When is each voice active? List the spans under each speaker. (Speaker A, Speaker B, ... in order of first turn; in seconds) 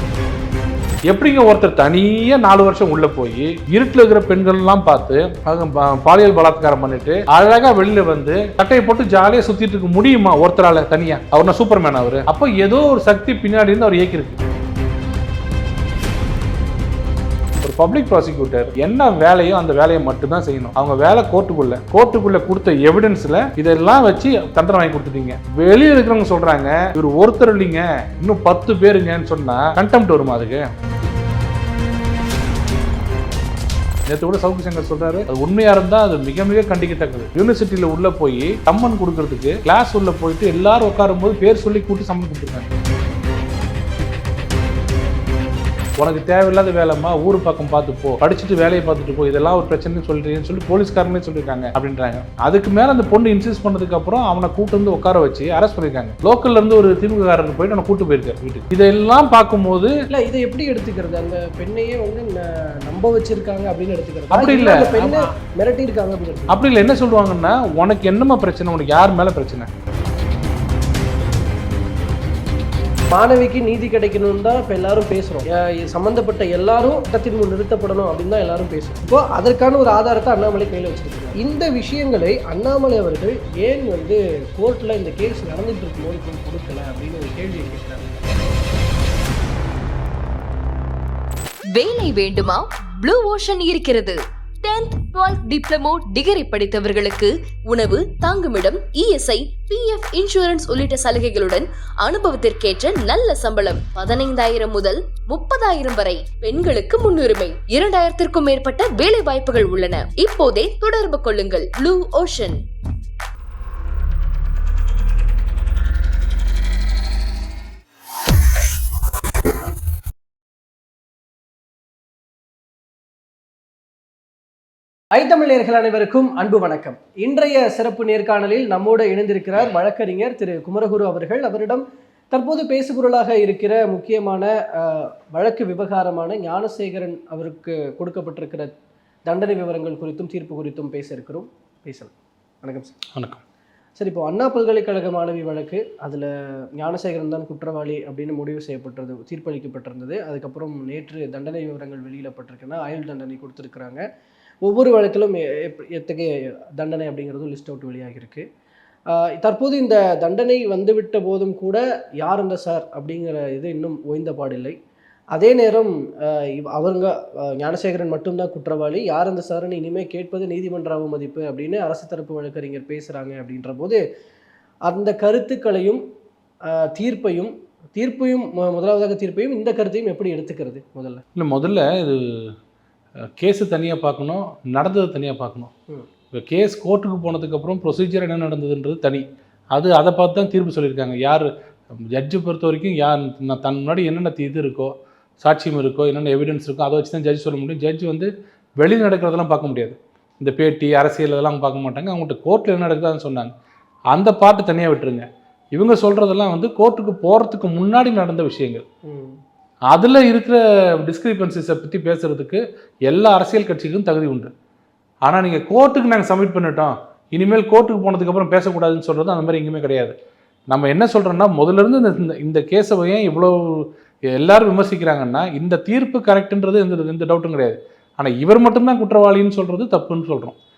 Speaker A: 1.1-14.4, 17.6-30.7, 34.1-42.7, 46.0-60.0, 64.3-65.3, 66.5-69.7, 143.1-143.4, 181.3-182.5, 183.4-185.7, 186.3-203.5, 204.1-208.8, 209.9-214.5, 215.3-220.1, 220.7-230.6
Speaker B: 60.1-66.5, 73.1-88.2, 125.1-138.7, 139.3-143.0, 144.0-154.0, 154.6-158.4, 159.1-164.8, 165.3-174.0, 174.9-176.0, 176.7-181.2, 209.0-209.4
Speaker C: 91.7-112.6